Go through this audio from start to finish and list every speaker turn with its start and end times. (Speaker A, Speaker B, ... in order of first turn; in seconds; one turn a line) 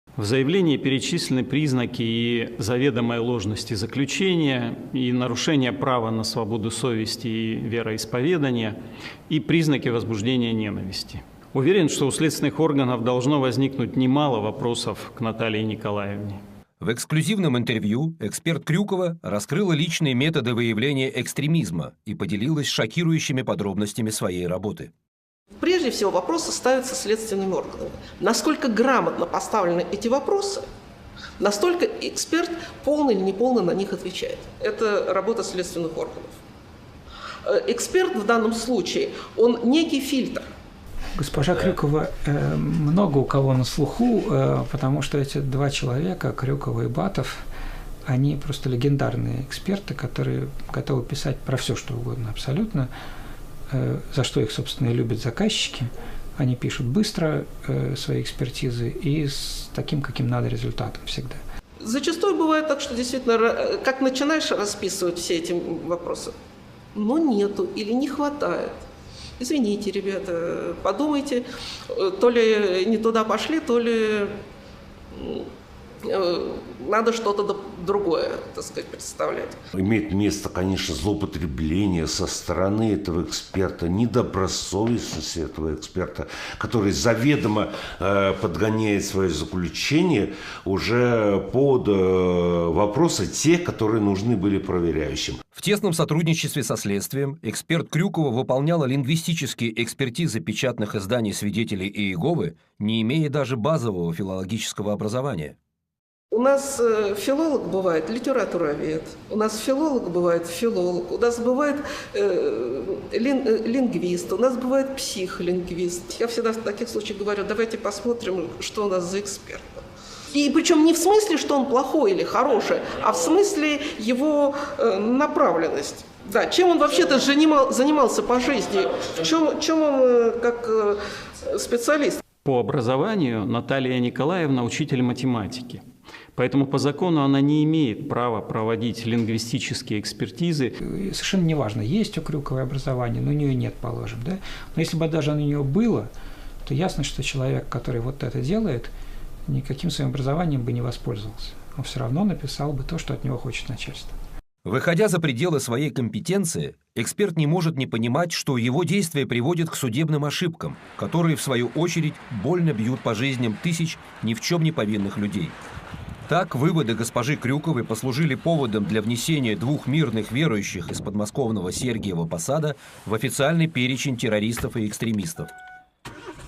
Speaker A: 0.2-8.8
Speaker A: 9.3-16.4
Speaker B: 16.8-24.9
Speaker C: 25.6-30.6
Speaker C: 31.4-36.4
Speaker C: 37.4-40.5
Speaker D: 41.1-47.4
Speaker D: 48.1-52.9
Speaker D: 53.7-61.4
Speaker C: 61.8-66.3
Speaker C: 66.9-68.7
Speaker C: 69.4-74.3
Speaker C: 75.1-75.5
Speaker C: 76.0-79.6
Speaker E: 79.7-95.4
Speaker B: 95.5-105.5
Speaker C: 106.3-132.2
Speaker A: 132.4-135.8
Speaker A: 136.3-140.7
Speaker D: 140.8-146.1
Speaker D: 146.6-148.9
Speaker D: 149.5-154.1
Speaker B: 154.6-165.6
Speaker B: 166.3-175.5